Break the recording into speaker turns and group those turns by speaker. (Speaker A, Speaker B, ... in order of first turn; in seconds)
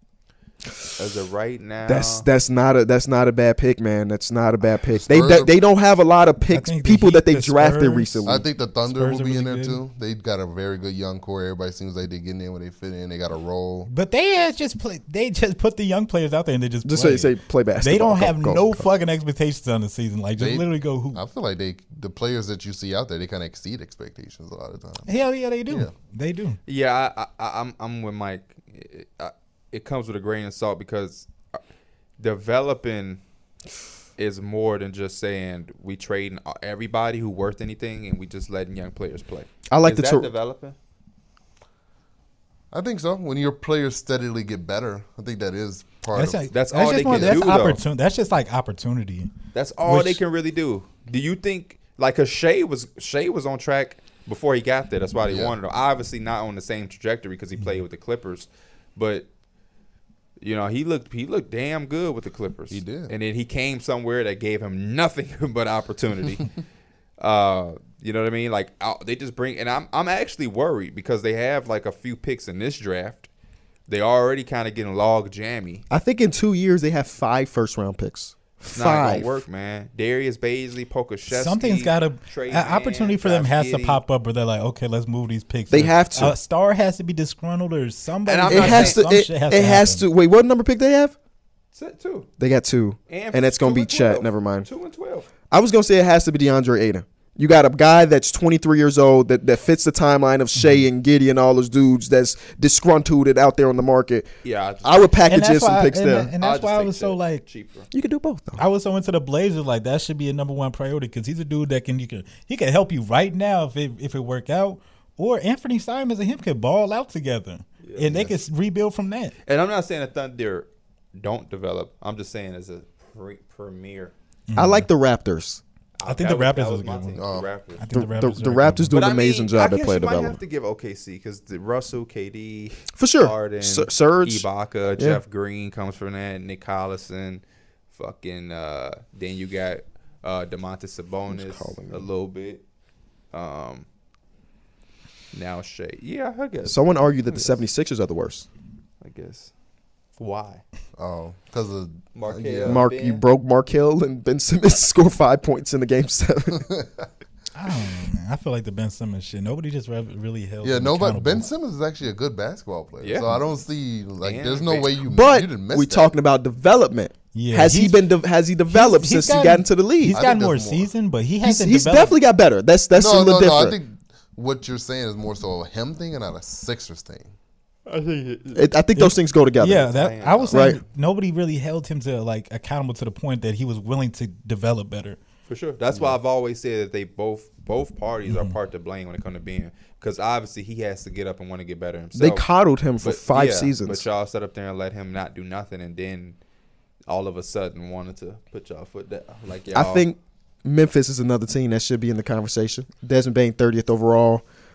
Speaker A: 1.0-2.2, 26.6-31.6, 32.2-33.2, 34.2-40.7, 46.5-47.8, 49.5-59.3, 60.4-66.5, 67.2-73.3, 73.9-75.8, 78.7-84.0, 88.2-89.0, 91.7-92.3, 93.1-95.3, 104.4-105.1, 106.4-107.9, 117.8-118.3, 119.5-124.1, 126.0-127.9, 128.9-142.6, 143.3-143.8, 145.3-146.8, 147.3-147.6, 149.0-149.5, 150.2-150.6, 152.1-153.2, 163.0-163.4, 164.2-164.9, 177.8-178.7, 179.8-180.7, 185.5-192.4, 193.0-196.4, 197.1-200.1
Speaker B: 1.9-8.4, 16.8-18.9, 39.7-40.3, 75.9-79.4, 85.7-86.3, 88.5-91.1, 92.4-94.7, 95.5-106.3, 107.9-108.6, 124.5-125.6, 127.9-130.4, 132.9-135.2, 141.3-142.1, 146.6-148.4, 152.7-156.7, 165.1-170.2, 171.4-173.8, 178.5-179.9, 180.5-180.8, 192.1-194.0, 199.7-204.4
Speaker C: 4.8-5.5, 8.2-13.9, 20.4-25.1, 42.7-47.5, 55.3-55.5, 62.7-63.1, 127.1-127.5, 151.0-152.8, 156.6-157.1, 160.6-166.1, 170.1-170.9, 172.9-177.3
Speaker D: 6.5-8.3, 8.9-9.8, 13.9-21.2, 25.1-26.6, 46.1-49.3, 49.8-50.2, 81.3-90.0, 100.6-100.8, 105.2-107.4, 108.6-119.3, 124.5-124.9, 126.0-127.2, 127.8-128.9, 157.5-161.5, 167.3-168.0, 168.7-172.2, 179.0-185.2, 188.3-188.6